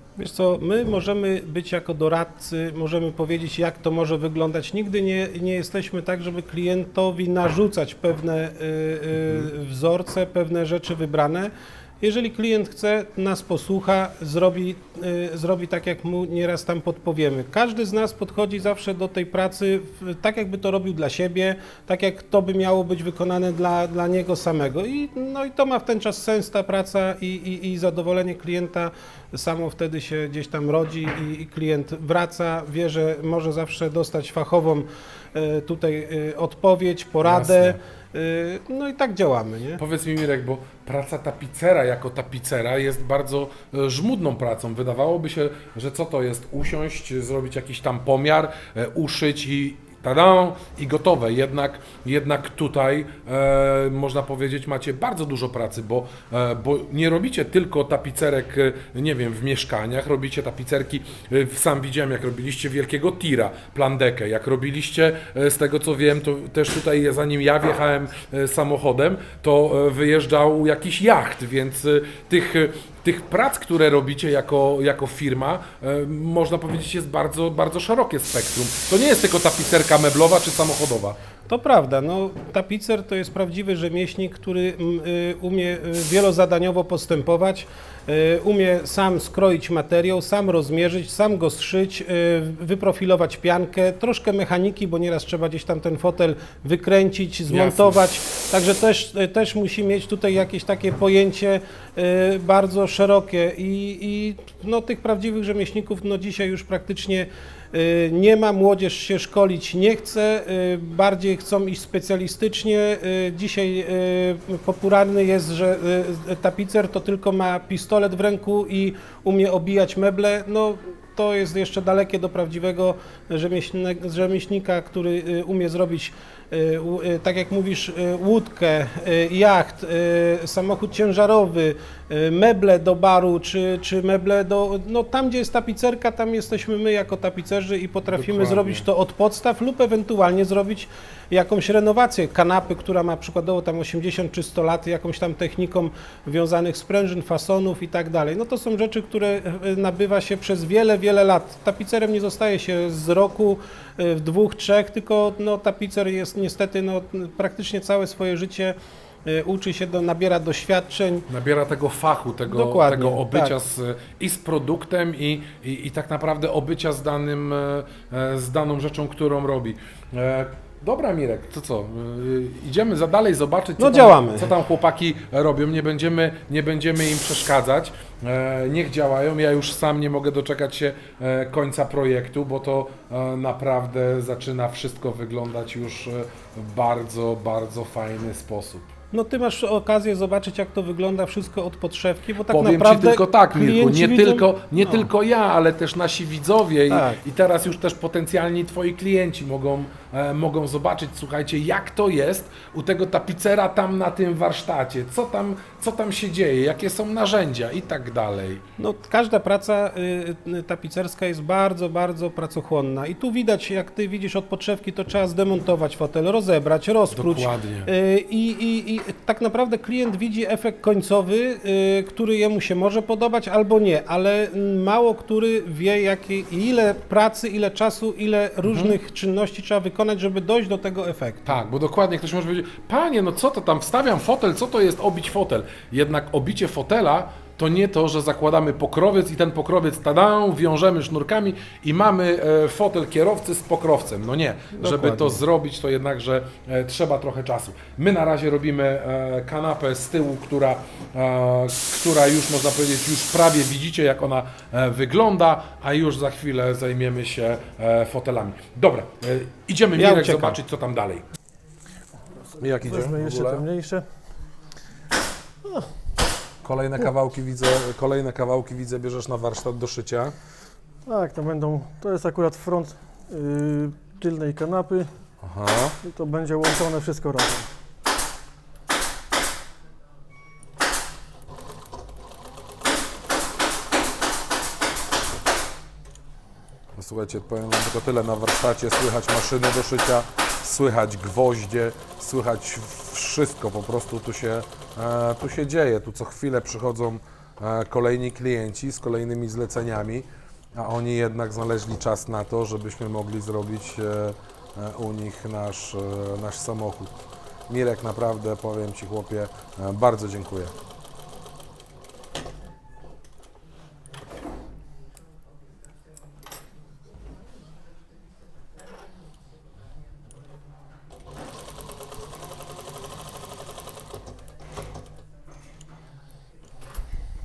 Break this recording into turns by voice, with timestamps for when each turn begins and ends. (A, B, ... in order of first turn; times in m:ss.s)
0:00.2-0:39.8 A
0:37.2-0:37.8 B
0:39.8-1:21.2 B
1:21.5-2:41.2 A
1:37.5-1:38.0 B
2:18.1-2:18.9 B
2:41.3-3:08.9 B
2:42.5-2:43.5 A
2:53.8-2:54.5 A
3:09.1-3:15.0 A
3:12.5-3:28.6 B
3:16.9-3:17.2 A
3:28.8-3:51.4 A
3:37.1-3:37.9 B
3:48.6-3:49.0 B
3:51.4-4:21.2 B
4:04.7-4:05.4 A
4:20.0-4:20.6 A
4:22.6-4:23.7 B
4:22.8-4:24.1 C
4:26.6-4:30.3 B
4:31.0-4:35.0 C
4:35.4-4:36.0 B
4:36.0-4:37.7 C
4:46.9-5:10.7 B